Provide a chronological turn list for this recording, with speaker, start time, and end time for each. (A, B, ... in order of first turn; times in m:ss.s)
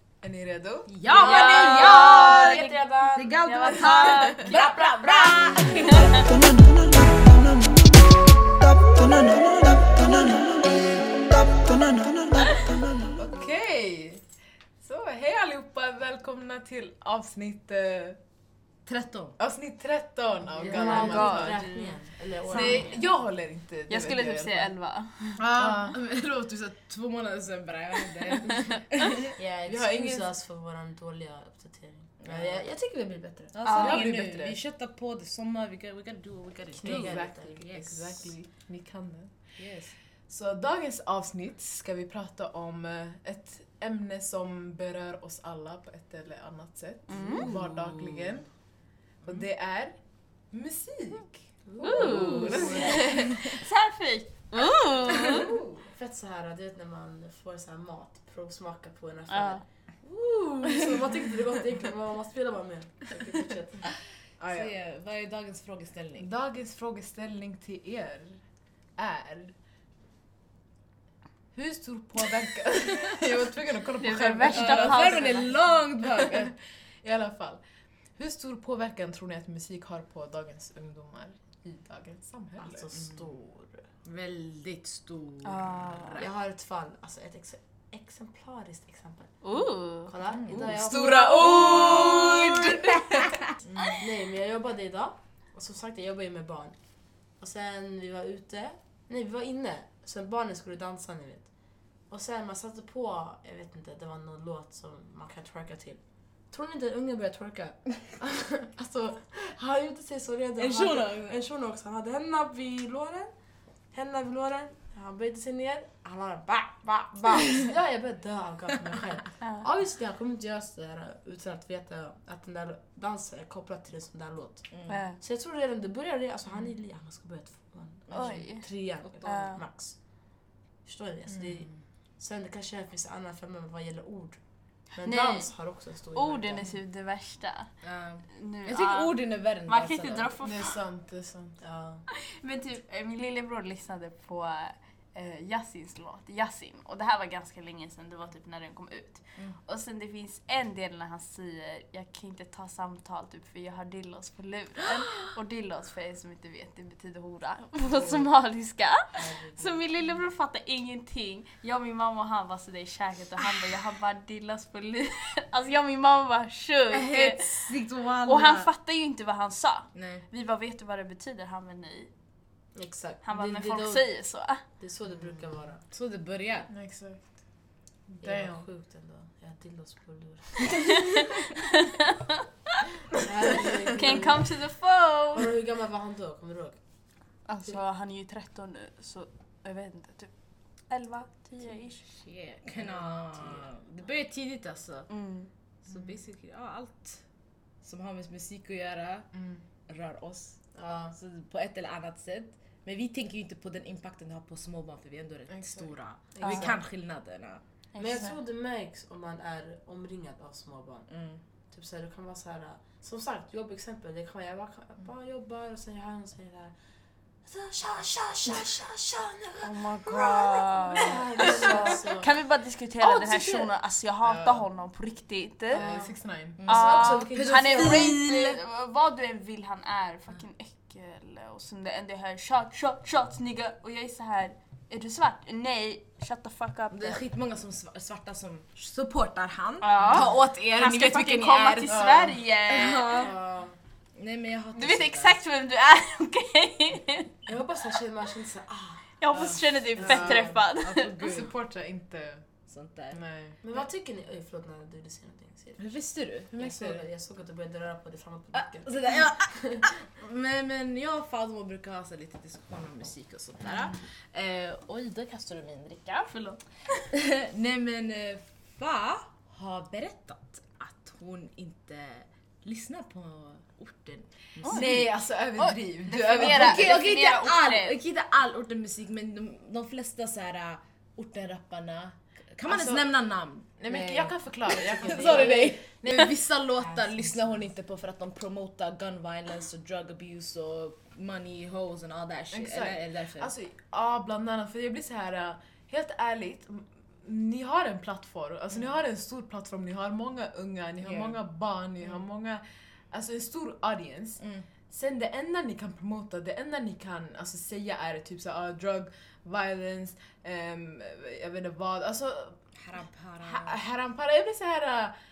0:00.2-0:00.9 A
0:00.9-0:06.5 B
0:01.1-0:03.4 C
0:01.1-0:06.3 D
0:13.1-0:14.2 A
0:14.8-0:18.2 A
0:18.9-0:19.4 B
0:19.4-0:21.8 A
0:20.5-0:23.0 C
0:20.6-0:23.0 D
0:22.5-0:24.7 A
0:23.9-0:25.4 D
0:25.4-0:26.0 A
0:25.6-0:29.4 B
0:28.2-0:28.8 D
0:29.4-0:33.6 C
0:29.7-0:30.3 A
0:32.2-0:32.7 B
0:33.5-0:38.3 B
0:33.6-0:34.0 D
0:33.6-0:34.6 A
0:36.7-0:37.6 C
0:36.8-0:39.3 A
0:39.6-0:40.0 B
0:40.3-0:48.5 A
0:47.1-0:47.5 D
0:47.2-0:48.4 B
0:49.2-0:50.0 A
0:50.5-0:51.4 A
0:51.7-0:53.1 C
0:51.8-0:55.5 D
0:51.9-0:53.2 B
0:52.0-0:53.6 A
0:55.1-0:55.9 A
0:55.3-1:03.9 C
0:59.3-0:59.6 D
1:04.4-1:04.8 A
1:04.5-1:06.3 B
1:06.2-1:08.4 A
1:09.0-1:09.5 A
1:11.6-1:17.6 A
1:14.0-1:15.5 D
1:14.5-1:16.5 B
1:18.2-1:22.9 A
1:22.6-1:23.8 C
1:23.0-1:23.3 B
1:24.0-1:26.3 B
1:25.4-1:26.2 D
1:26.1-1:29.4 C
1:29.4-1:30.1 D
1:30.1-1:32.5 C
1:30.4-1:30.8 B
1:30.5-1:33.5 A
1:31.4-1:32.4 B
1:33.5-1:34.0 B
1:34.0-1:36.8 C
1:37.4-1:41.5 C
1:42.1-1:53.3 C
1:50.6-1:51.4 B
1:53.9-2:10.0 C
2:04.7-2:05.0 B
2:04.9-2:05.2 D
2:08.1-2:08.7 D
2:09.2-2:09.6 D
2:10.8-2:16.7 C
2:11.3-2:11.6 A
2:15.0-2:17.7 D
2:17.8-2:20.3 B
2:18.3-2:20.8 D
2:20.4-2:21.6 A
2:21.6-2:22.0 C
2:22.1-2:52.1 D
2:37.9-2:38.3 C
2:39.1-2:39.8 C
2:46.9-2:48.7 B
2:50.0-2:50.2 B
2:52.8-2:54.1 C
2:53.2-2:54.6 D
2:54.8-2:55.8 C
2:55.2-2:56.7 B
2:56.7-2:57.3 A
2:58.1-2:58.6 A
2:58.2-3:01.0 C
3:01.1-3:02.1 D
3:03.1-3:04.5 C
3:04.0-3:05.5 D
3:05.4-3:06.8 C
3:07.5-3:10.3 D
3:10.9-3:12.1 D
3:12.1-3:15.1 B
3:12.8-3:13.7 C
3:15.1-3:15.5 D
3:15.8-3:17.2 B
3:17.8-3:19.3 B
3:19.3-3:19.6 A
3:19.9-3:20.6 B
3:20.8-3:21.2 C
3:21.1-3:27.6 B
3:25.5-3:25.9 A
3:26.4-3:26.8 C
3:26.4-3:26.8 D
3:27.9-3:28.4 D
3:28.0-3:31.1 C
3:31.1-3:31.4 B
3:31.7-3:36.7 C
3:37.5-3:42.3 C
3:39.6-3:45.8 D
3:44.2-3:44.7 A
3:45.7-3:48.2 C
3:45.7-3:46.6 A
3:46.6-3:48.6 B
3:46.7-3:57.2 D
3:56.9-4:03.4 B
3:59.8-4:03.3 D
4:01.9-4:02.4 A
4:03.1-4:03.8 C
4:04.2-4:05.4 B
4:04.8-4:07.4 D
4:07.5-4:09.1 C
4:09.2-4:11.1 D
4:09.3-4:10.4 A
4:10.0-4:10.6 C
4:10.2-4:11.5 B
4:11.2-4:12.4 A
4:12.7-4:13.2 B
4:13.1-4:13.7 A
4:13.6-4:19.9 C
4:15.8-4:17.0 B
4:18.5-4:26.2 B
4:26.2-4:27.1 D
4:27.1-4:35.1 B
4:34.6-4:34.9 D
4:34.6-4:36.9 A
4:35.6-4:38.0 D
4:36.4-4:53.5 B
4:42.7-4:43.1 A
4:43.8-4:46.4 A
4:44.7-4:45.8 C
4:46.8-4:47.6 C
4:52.5-5:12.6 A
5:01.0-5:01.4 B
5:04.4-5:04.7 B
5:12.8-5:13.8 B
5:13.4-5:15.2 A